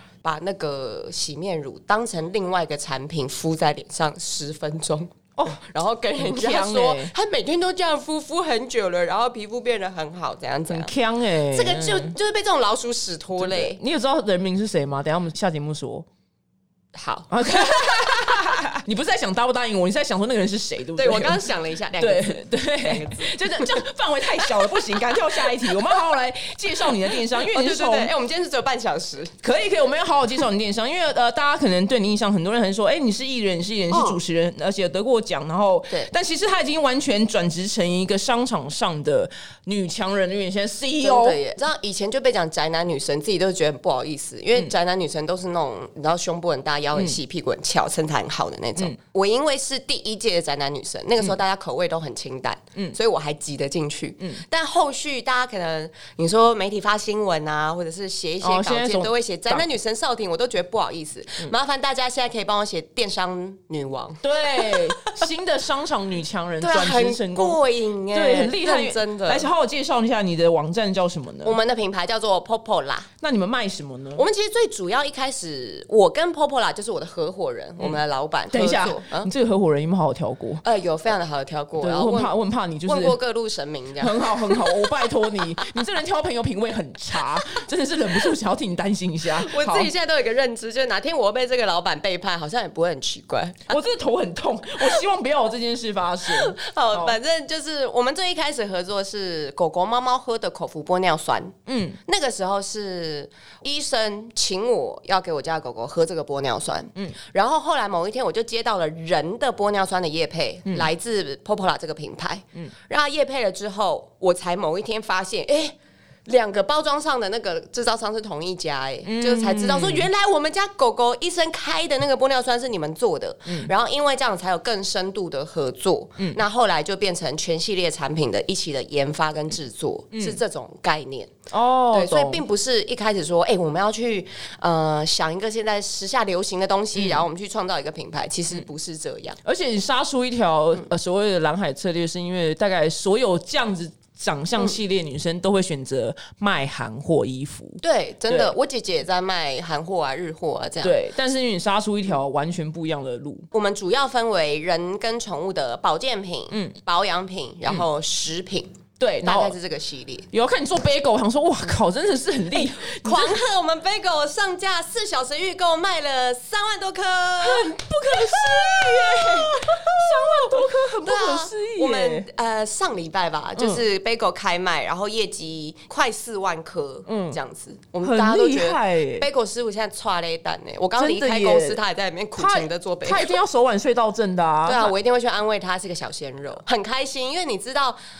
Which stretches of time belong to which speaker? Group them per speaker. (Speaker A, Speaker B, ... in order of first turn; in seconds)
Speaker A: 0.2-10.9, 11.5-13.8, 16.9-18.6, 20.9-23.8, 24.4-25.8, 27.1-29.4, 33.9-34.2, 41.0-65.2, 66.6-69.5, 71.4-73.1, 74.2-79.3, 80.6-85.1, 89.3-93.8, 96.2-115.7, 116.2-131.3, 131.9-139.4, 147.8-150.9, 153.5-160.3, 162.6-183.4, 184.7-188.0
Speaker B: 6.2-7.1, 10.7-12.1, 13.4-16.1, 17.3-21.5, 22.0-28.1, 29.4-41.4, 58.4-59.6, 64.2-67.6, 68.1-71.6, 73.2-74.2, 78.5-80.6, 81.8-83.2, 84.0-89.9, 93.7-97.2, 101.7-102.0, 119.0-120.1, 130.1-130.4, 131.5-132.4, 136.9-137.2, 139.4-148.5, 150.8-153.5, 156.5-156.8, 159.0-159.5, 160.3-163.4, 167.4-172.3, 173.6-173.8, 177.1-177.4, 178.0-179.3, 181.0-181.8, 182.3-184.9